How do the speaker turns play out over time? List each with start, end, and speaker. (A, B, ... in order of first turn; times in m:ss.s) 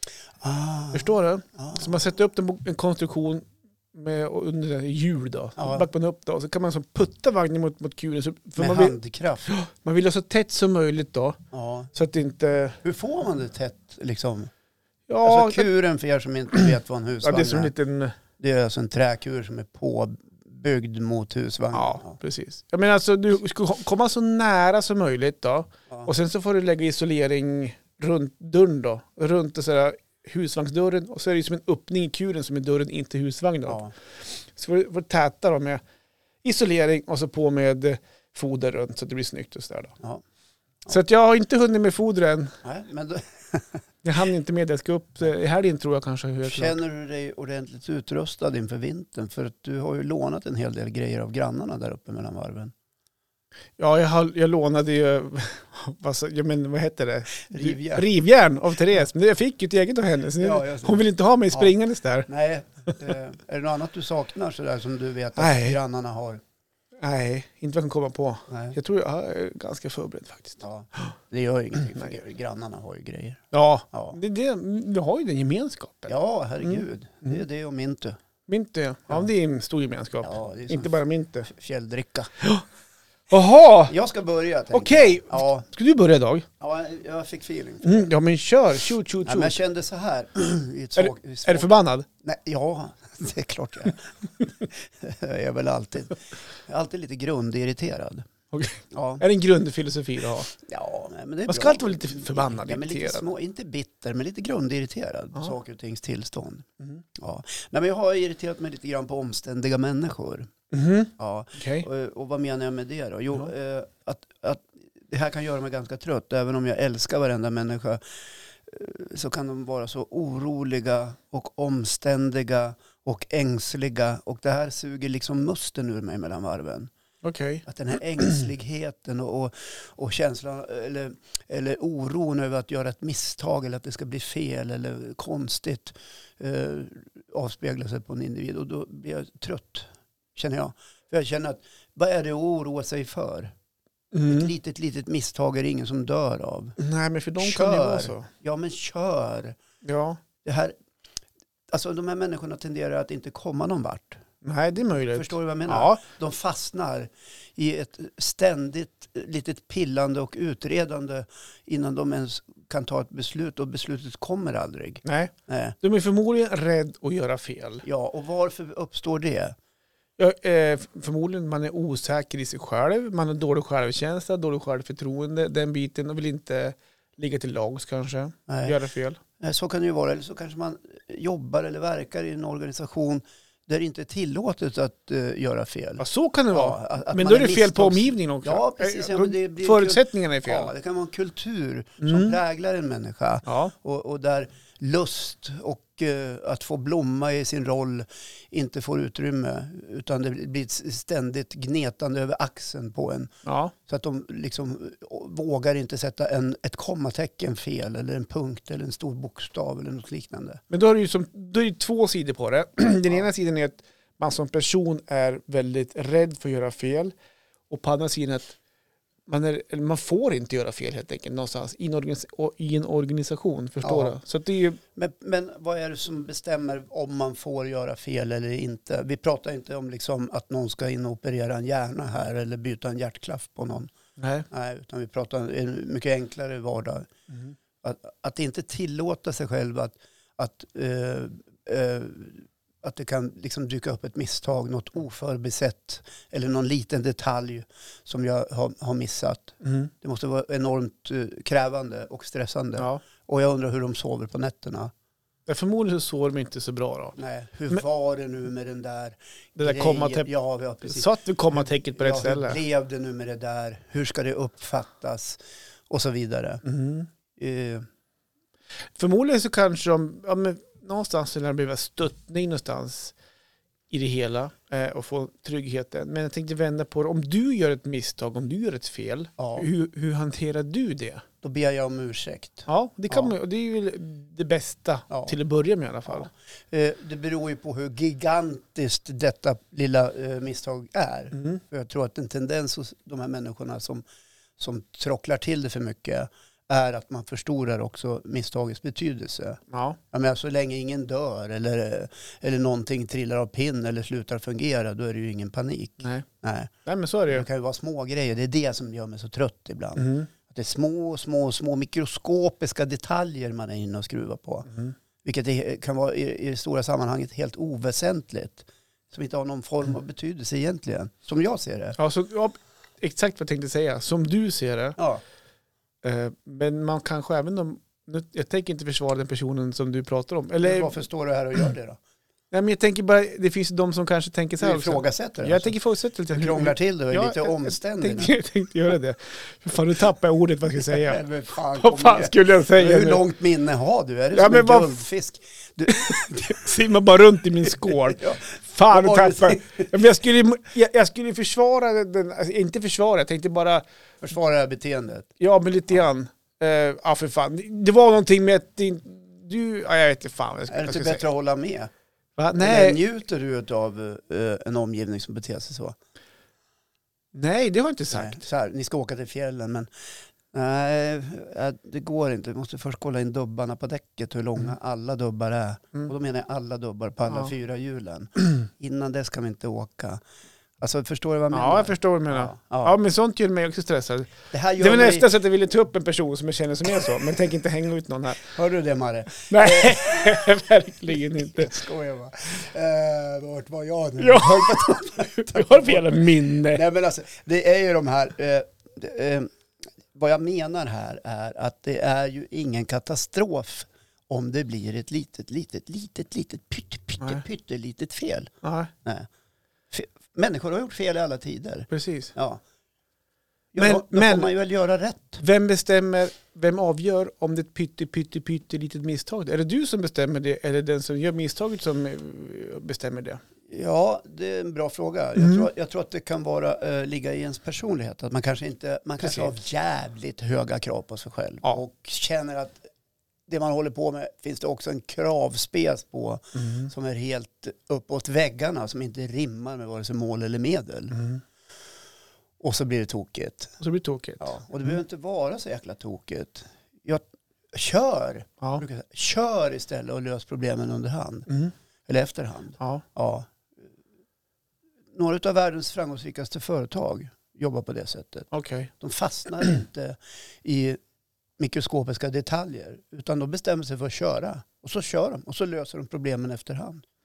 0:00.4-0:02.0 A
0:00.9-0:09.0 B
0:05.6-0:05.8 A
0:08.6-0:09.5 A
0:09.5-0:11.4 B
0:11.5-0:11.9 A
0:11.9-0:12.8 B
0:12.8-0:14.5 A
0:15.1-0:15.7 B
0:15.2-0:17.7 A
0:17.2-0:18.2 B
0:18.4-0:22.2 A
0:21.7-0:35.8 B
0:33.7-0:33.9 A
0:36.4-0:39.9 B
0:40.9-0:42.5 B
0:42.6-0:43.8 A
0:44.0-0:46.8 B
0:46.4-0:52.7 A
0:53.8-1:02.3 B
0:57.4-0:58.1 A
1:00.4-1:01.7 A
1:02.3-1:06.4 A
1:05.4-1:05.8 B
1:07.0-1:10.6 B
1:08.5-1:08.8 A
1:10.6-1:14.2 A
1:13.5-1:17.3 B
1:16.1-1:18.2 A
1:18.5-1:21.5 B
1:20.2-1:20.9 A
1:21.4-1:22.3 A
1:23.3-1:23.9 B
1:23.9-1:25.6 A
1:24.7-1:26.5 B
1:26.6-1:28.1 A
1:27.8-1:29.6 B
1:29.2-1:38.3 A
1:31.0-1:32.1 B
1:38.5-1:40.5 B
1:38.9-1:39.2 A
1:40.6-1:50.5 A
1:41.5-1:43.2 B
1:50.7-1:51.8 B
1:51.2-1:58.0 A
1:58.7-2:06.9 A
2:07.2-2:07.6 B
2:07.6-2:23.5 A
2:24.1-2:24.5 B
2:24.2-2:26.8 A
2:26.8-2:28.3 B
2:27.4-2:29.6 A
2:29.8-2:30.2 B
2:30.4-2:30.7 A
2:31.7-2:34.2 A
2:34.4-2:36.0 B
2:35.0-2:45.8 A
2:45.0-2:47.8 B
2:47.8-2:49.6 A
2:50.2-2:59.2 B
2:58.5-2:58.8 A
2:59.4-3:23.3 A
3:06.0-3:10.7 B
3:12.0-3:12.4 B
3:13.4-3:13.7 B
3:23.4-3:23.7 B
3:23.8-3:30.6 A
3:30.7-3:37.1 B
3:37.7-3:38.6 B
3:39.3-3:44.8 B
3:43.8-3:44.1 A
3:44.9-3:53.9 A
3:54.2-3:54.4 B
3:54.5-3:57.1 A
3:57.8-4:14.9 A
4:09.6-4:09.9 B
4:12.8-4:13.0 B
4:15.5-4:17.2 B
4:17.2-4:25.4 A
4:19.6-4:20.3 B
4:20.8-4:22.6 B
4:25.9-4:26.6 A
4:26.6-4:27.1 B
4:27.4-4:27.8 A
4:28.9-4:33.1 B
4:33.9-4:41.2 B
4:39.4-4:39.7 A
4:41.4-4:43.3 A
4:42.7-4:46.3 B
4:45.1-4:45.4 A
4:46.1-4:54.0 A
4:54.6-4:59.6 A
4:59.7-5:00.0 B
5:00.1-5:06.7 A
5:06.0-5:06.2 B
5:06.8-5:07.4 B
5:07.3-5:14.7 A
5:10.0-5:10.3 B
5:15.2-5:22.0 A
5:22.0-5:25.0 B
5:25.0-5:25.2 A
5:26.0-5:30.9 B
5:30.6-5:32.0 A
5:32.5-5:41.2 B
5:34.6-5:35.7 A
5:36.3-5:38.3 A
5:40.9-5:46.6 A
5:41.8-5:43.2 B
5:44.3-5:44.9 B
5:45.9-5:53.8 B
5:47.8-5:49.9 A
5:54.2-5:55.3 A
5:55.4-6:01.2 B
6:00.7-6:01.9 A
6:02.4-6:03.0 B
6:02.6-6:06.0 A
6:07.3-6:08.4 B
6:08.1-6:09.9 A
6:10.5-6:20.2 A
6:20.8-6:23.0 A
6:21.5-6:28.5 B
6:24.5-6:25.3 A
6:28.5-6:30.5 A
6:29.5-6:31.7 B
6:31.4-6:39.5 A
6:34.2-6:36.8 B
6:40.1-6:48.5 A
6:48.6-6:48.9 B
6:49.9-6:52.6 A
6:51.9-6:52.3 B
6:53.7-6:55.4 A
6:53.8-6:54.5 B
6:55.4-7:03.4 B
7:03.7-7:12.8 A
7:05.4-7:05.6 B
7:09.2-7:09.5 B
7:13.5-7:21.2 A
7:16.6-7:16.9 B
7:21.1-7:21.4 B
7:22.6-7:23.8 A
7:23.8-7:24.6 B
7:24.4-7:31.5 A
7:32.0-7:33.5 A
7:35.1-7:38.5 A
7:38.5-7:38.9 B
7:39.0-7:41.0 A
7:41.6-7:47.0 A